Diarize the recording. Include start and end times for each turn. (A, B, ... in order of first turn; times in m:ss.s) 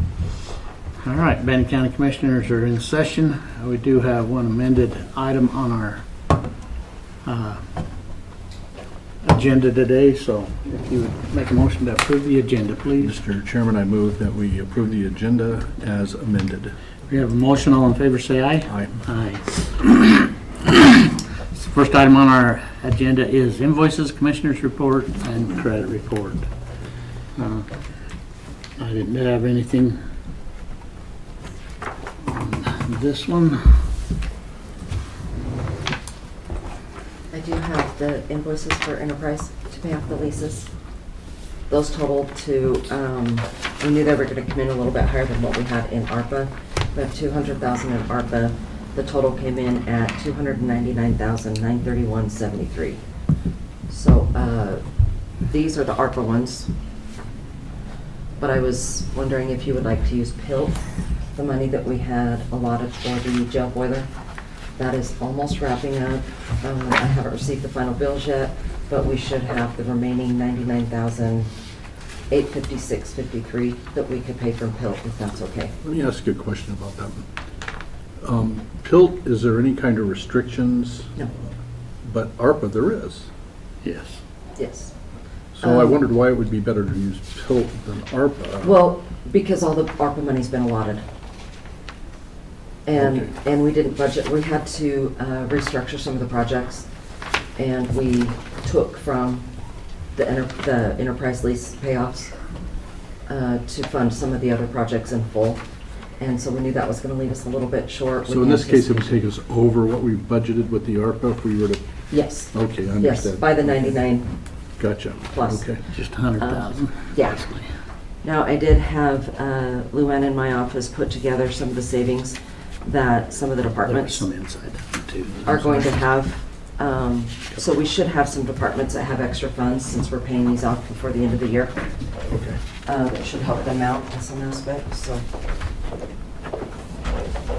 0:01.0-0:06.0 A
0:07.2-0:07.6 A
0:09.2-0:13.2 A
0:13.0-0:16.8 B
0:17.1-0:26.5 A
0:18.7-0:19.0 B
0:27.4-0:27.7 A
0:28.8-0:30.0 A
0:32.2-0:33.6 A
0:37.3-0:40.7 C
0:41.7-0:53.0 C
0:53.9-0:54.8 C
0:55.5-0:56.7 C
0:58.4-1:04.1 C
1:04.8-1:11.5 C
1:12.3-1:15.7 C
1:15.8-1:17.3 B
1:18.2-1:21.1 B
1:22.0-1:23.3 B
1:23.8-1:24.2 A
1:24.6-1:24.9 C
1:25.5-1:28.8 B
1:25.6-1:26.0 C
1:28.6-1:31.0 C
1:32.9-1:36.9 C
1:33.0-1:33.3 B
1:37.6-1:39.5 C
1:40.2-1:42.4 C
1:43.3-1:45.6 C
1:46.2-1:49.2 C
1:48.2-1:51.8 B
1:52.1-1:54.3 C
1:52.5-1:54.0 B
1:54.8-1:55.8 B
1:55.3-1:55.7 C
1:55.9-1:57.7 A
1:56.4-1:57.4 C
1:58.2-2:04.2 C
2:03.8-2:05.9 A
2:05.4-2:11.8 C
2:12.3-2:12.6 B
2:12.9-2:15.3 C